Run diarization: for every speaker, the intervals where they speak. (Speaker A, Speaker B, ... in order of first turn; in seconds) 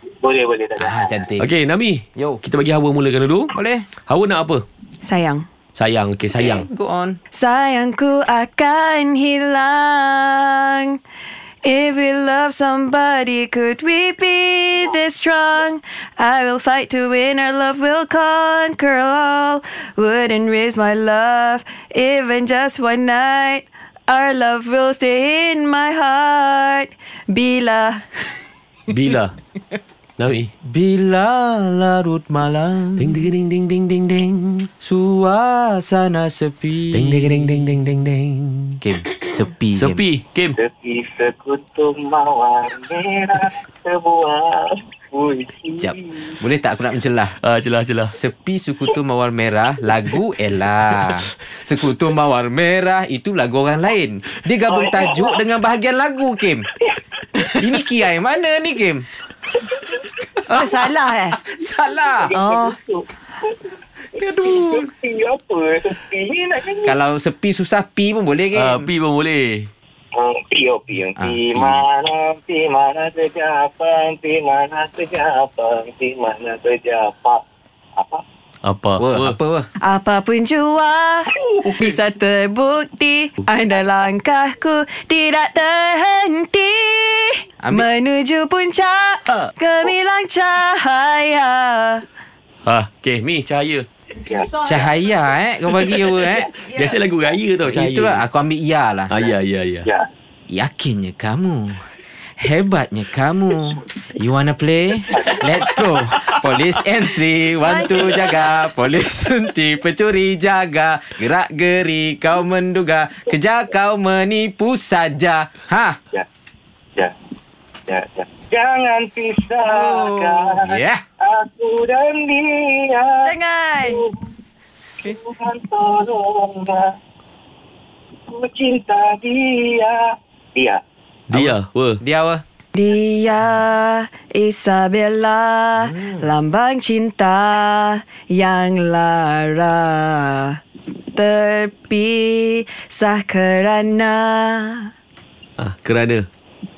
Speaker A: 0.1-1.3, 40.6-46.4, 54.7-55.4, 56.9-57.4, 59.5-60.0, 62.1-67.0, 70.2-77.4, 78.0-78.2, 94.2-94.5, 105.1-105.7, 117.9-124.1, 125.0-126.9, 128.3-130.0
Speaker B: 0.8-1.5, 3.5-3.9, 6.3-7.2, 30.6-33.3, 34.8-37.7, 38.8-40.0, 45.8-47.4, 48.1-56.7, 57.5-59.1, 61.3-62.3, 64.2-64.9, 66.8-68.9, 71.2-71.8, 79.0-79.7, 87.6-87.9, 94.6-96.5, 97.6-99.1, 100.5-101.8, 102.4-116.0, 119.8-121.0, 131.3-132.4, 135.8-136.3
Speaker C: 1.4-3.5, 4.1-4.7, 5.8-6.7, 28.9-29.3, 30.2-30.5, 33.0-34.7, 36.9-38.8, 39.8-40.6, 47.4-48.2, 68.5-69.7, 78.6-79.4, 81.3-82.0, 92.7-93.9, 96.7-98.2, 99.1-99.9, 105.7-106.3, 131.3-132.0, 145.6-146.3
Speaker D: 5.0-5.5, 7.3-11.0, 11.6-28.1, 60.5-61.4, 62.4-62.8, 79.8-92.0, 94.2-95.3, 96.5-97.0, 107.6-108.3, 119.7-120.2, 123.2-124.0, 132.8-140.6, 141.2-144.9